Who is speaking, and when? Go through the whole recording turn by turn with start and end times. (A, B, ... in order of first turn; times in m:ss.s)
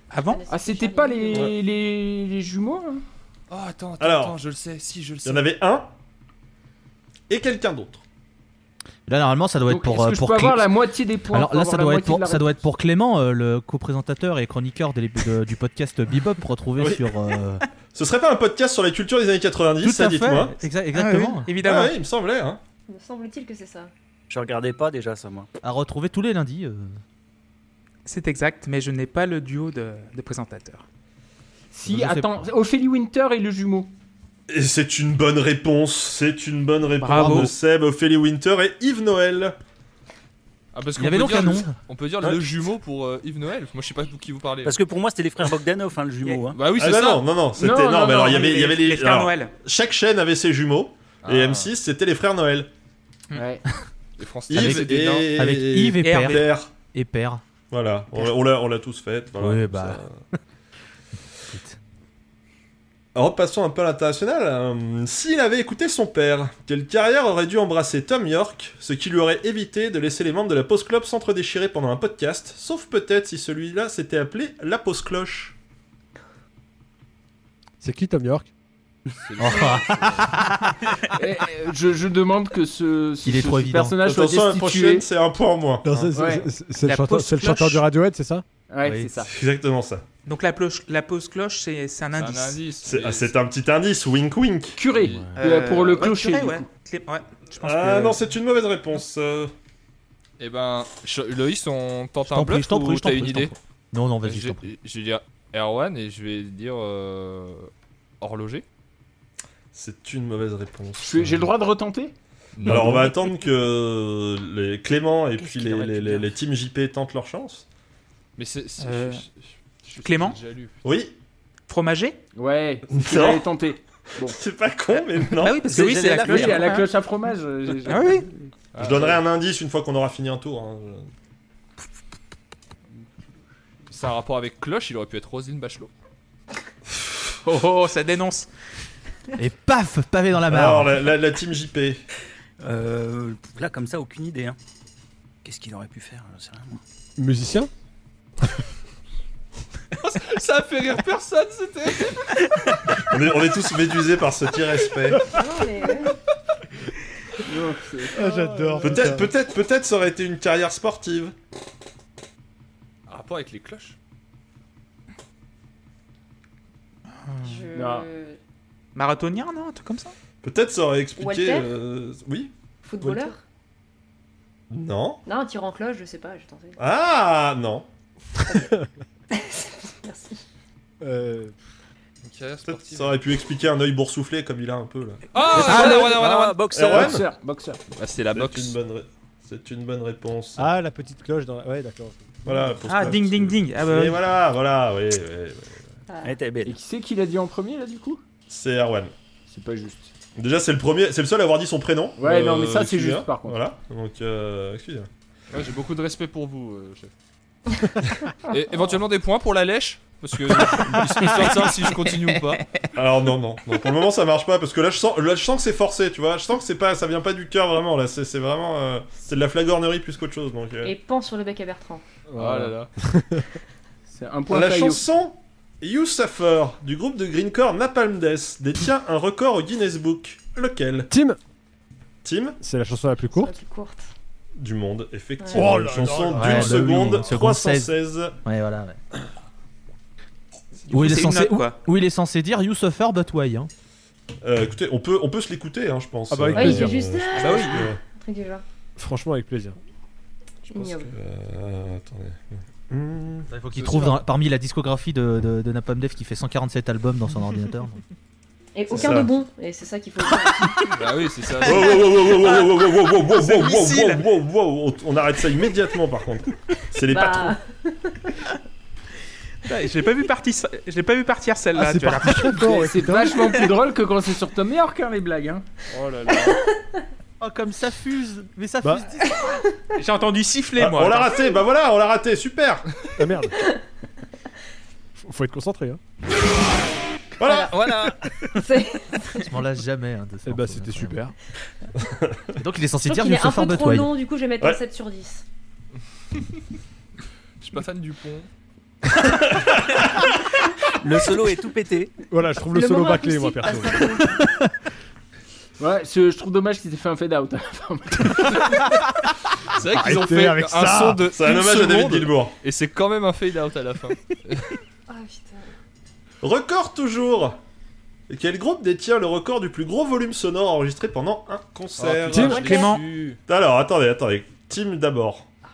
0:00.1-0:00.4 A
0:00.2-0:01.5 B
0:00.5-0:03.0 C
0:03.5-0:05.5 D
0:04.0-0:04.4 E
0:05.2-0:05.9 E
0:07.3-0:08.0 E
0:09.1-0:10.7 F
0:09.7-0:12.6 C
0:11.3-0:17.6 F
0:16.8-0:17.2 E
0:17.9-0:20.6 E
0:19.8-0:21.5 F
0:20.9-0:22.0 A
0:21.6-0:22.6 E
0:22.9-0:23.9 B
0:24.3-0:25.5 G
0:25.6-0:27.0 F
0:28.0-0:30.8 A
0:31.7-0:33.9 C
0:31.9-0:32.3 F
0:34.5-0:39.6 E
0:37.0-0:37.5 A
0:37.1-0:37.5 F
0:40.7-0:44.8 D
0:41.0-0:41.8 F
0:44.6-0:46.6 G
0:46.5-0:47.3 D
0:46.8-0:52.7 E
0:47.6-0:47.9 B
0:48.1-0:49.5 A
0:51.2-0:51.7 D
0:53.3-0:53.6 C
0:54.2-0:55.3 D
0:54.5-0:56.7 E
0:54.5-0:57.4 F
0:56.0-0:56.5 A
0:57.7-1:00.2 E
0:59.4-1:00.0 F
1:01.5-1:01.8 F
1:03.2-1:15.6 E
1:17.8-1:18.5 H
1:19.2-1:20.4 D
1:19.4-1:20.8 F
1:21.2-1:25.1 C
1:23.2-1:24.0 F
1:24.0-1:26.2 E
1:25.8-1:28.4 H
1:26.1-1:26.5 C
1:26.8-1:27.8 A
1:28.7-1:29.3 C
1:28.8-1:29.1 F
1:29.3-1:30.0 E
1:30.3-1:32.6 A
1:32.2-1:33.3 D
1:32.8-1:34.8 E
1:34.8-1:36.7 C
1:35.1-1:35.4 F
1:35.4-1:38.2 A
1:37.6-1:39.5 E
1:40.4-1:43.5 D
1:42.3-1:44.6 F
1:44.2-1:47.7 D
1:48.2-1:48.6 D
1:49.7-1:51.5 E
1:51.0-1:52.1 C
1:52.6-1:53.1 D
1:52.6-1:57.6 E
1:55.4-1:56.3 G
1:58.4-2:00.7 D
1:58.8-1:59.2 A
2:00.0-2:00.4 A
2:00.8-2:01.2 E
2:01.7-2:02.2 A
2:02.4-2:04.4 C
2:02.9-2:03.5 E
2:04.2-2:05.7 E
2:05.3-2:06.9 A
2:05.7-2:06.8 G
2:06.2-2:09.2 C
2:07.8-2:08.3 A
2:08.7-2:09.2 D
2:08.8-2:11.1 E
2:13.9-2:15.9 D
2:17.4-2:18.5 A
2:19.4-2:20.9 F
2:20.5-2:22.0 E
2:22.6-2:24.6 G
2:25.4-2:26.8 G
2:27.2-2:27.7 H
2:30.0-2:32.4 D
2:33.1-2:35.4 E
2:35.2-2:36.2 B
2:37.4-2:38.3 C
2:38.1-2:39.3 H
2:38.2-2:38.9 D
2:38.8-2:41.3 E
2:43.1-2:44.0 D
2:47.4-2:48.4 B
2:47.7-2:48.1 C
2:49.0-2:50.1 A
2:50.4-2:53.3 E
2:51.2-2:51.7 B
2:52.8-2:53.4 B
2:54.7-2:55.2 E
2:55.3-2:56.8 B
2:56.8-2:57.9 E
2:59.3-3:00.4 B
3:01.0-3:01.6 H
3:02.2-3:03.2 D
3:02.7-3:06.0 E
3:05.3-3:06.6 D
3:05.5-3:07.2 G
3:05.6-3:06.2 C
3:06.7-3:07.2 E
3:06.8-3:07.8 C
3:08.0-3:08.8 D
3:08.3-3:10.7 E
3:10.6-3:12.3 H
3:12.4-3:15.8 E
3:12.8-3:14.2 A
3:16.1-3:16.4 B
3:16.2-3:16.8 G
3:16.6-3:18.2 C
3:18.5-3:19.1 E
3:19.5-3:20.1 C
3:20.4-3:25.1 E
3:22.2-3:23.6 C
3:25.5-3:27.1 D
3:28.5-3:32.6 D
3:33.0-3:41.0 E
3:40.8-3:42.0 B
3:42.3-3:43.4 H
3:42.3-3:42.9 D
3:44.1-3:45.1 C
3:44.5-3:51.1 E
3:51.1-3:51.4 H
3:52.2-3:52.6 E
3:52.6-3:53.5 H
3:53.3-3:54.1 B
3:54.6-3:58.4 E
3:55.4-3:55.8 B
3:55.5-3:57.3 H
3:56.4-3:59.0 F
4:00.9-4:01.8 A
4:00.9-4:03.7 F
4:04.4-4:08.0 E
4:06.3-4:07.0 H
4:06.5-4:08.6 B
4:07.4-4:07.9 A
4:09.0-4:09.8 H
4:10.7-4:13.5 E
4:10.7-4:11.1 B
4:13.5-4:18.0 F
4:13.8-4:14.2 D
4:18.8-4:21.0 B
4:18.9-4:19.3 E
4:20.9-4:22.3 D
4:21.6-4:27.6 E
4:22.4-4:24.2 A
4:27.1-4:28.3 B
4:29.6-4:32.8 A
4:31.8-4:33.5 H
4:32.6-4:35.7 C
4:35.9-4:36.6 D
4:37.4-4:39.5 F
4:40.0-4:41.4 A
4:40.8-4:42.9 E
4:43.2-4:43.6 H
4:45.2-4:46.0 H
4:47.4-4:47.7 E
4:47.4-4:47.7 B
4:47.5-4:48.7 G
4:48.5-4:49.5 B
4:49.4-4:51.2 F
4:50.5-4:51.3 H
4:52.0-4:52.5 E
4:52.6-4:54.1 F
4:53.1-4:55.4 B
4:57.6-4:58.5 D
4:59.2-5:00.3 E
5:01.0-5:02.1 G
5:02.3-5:04.5 H
5:02.7-5:04.4 B
5:05.8-5:08.8 C
5:09.7-5:14.8 D
5:09.8-5:11.2 H
5:11.3-5:12.5 E
5:15.1-5:15.7 B
5:16.4-5:17.6 E
5:18.3-5:22.7 E
5:22.0-5:23.4 D
5:22.3-5:22.6 H
5:22.5-5:23.0 B
5:22.6-5:23.0 A
5:23.5-5:25.5 E